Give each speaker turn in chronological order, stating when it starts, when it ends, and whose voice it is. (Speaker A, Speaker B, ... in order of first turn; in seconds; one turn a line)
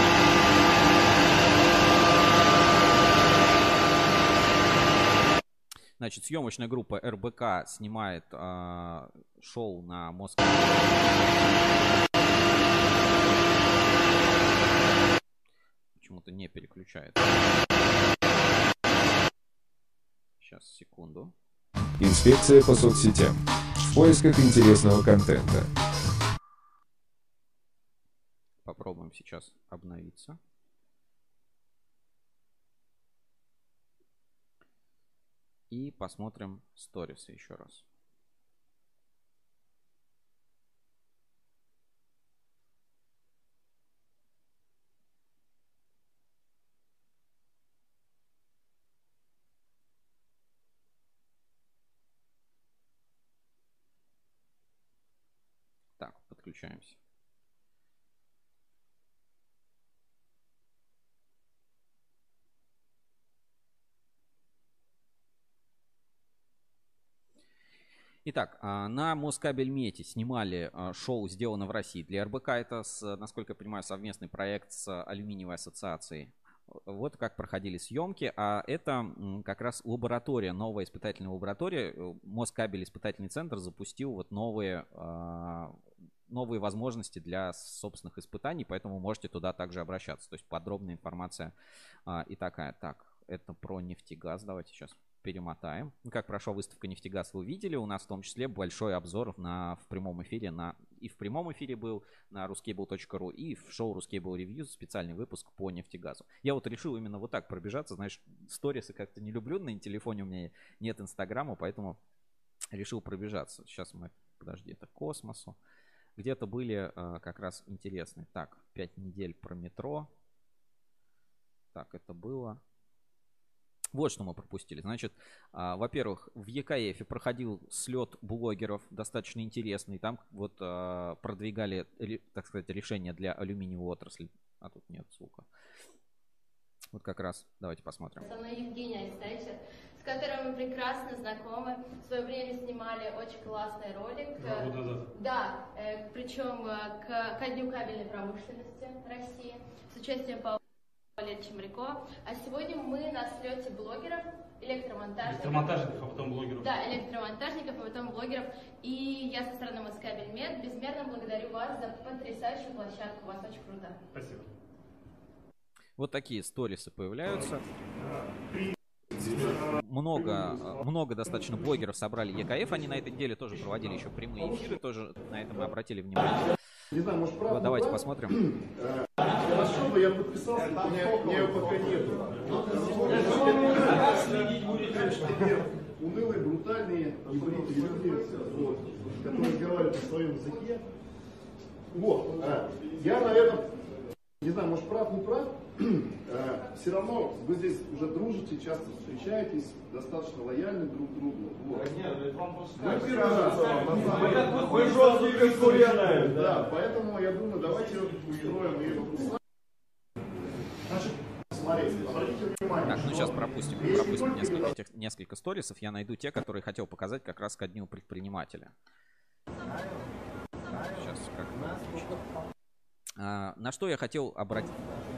Speaker A: 6.0-11.1
Speaker A: 16.0-17.2
Speaker A: 20.4-21.3
Speaker B: 22.0-25.7
Speaker A: 28.6-30.4
Speaker A: 35.7-37.8
Speaker A: 56.0-57.0
Speaker A: 68.2-85.7
Speaker A: 86.3-91.5
Speaker A: 92.1-112.0
Speaker A: 112.7-115.5
Speaker A: 116.2-120.1
Speaker A: 121.7-122.6
Speaker A: 123.9-135.5
Speaker A: 136.9-138.2
Speaker C: 138.2-150.6
Speaker D: 144.4-145.0
Speaker C: 151.2-155.9
Speaker D: 155.2-156.7
Speaker C: 156.6-164.1
Speaker D: 164.1-164.4
Speaker A: 166.0-167.6
Speaker A: 169.2-176.4
Speaker E: 176.9-178.0
Speaker A: 177.5-178.4
Speaker E: 179.2-190.8
Speaker E: 191.9-193.7
Speaker E: 194.4-201.9
Speaker D: 202.5-206.4
Speaker E: 202.8-204.4
Speaker E: 205.6-209.3
Speaker E: 211.5-213.0
Speaker A: 212.8-218.7
Speaker E: 213.8-214.6
Speaker A: 220.7-222.2
Speaker A: 223.2-224.8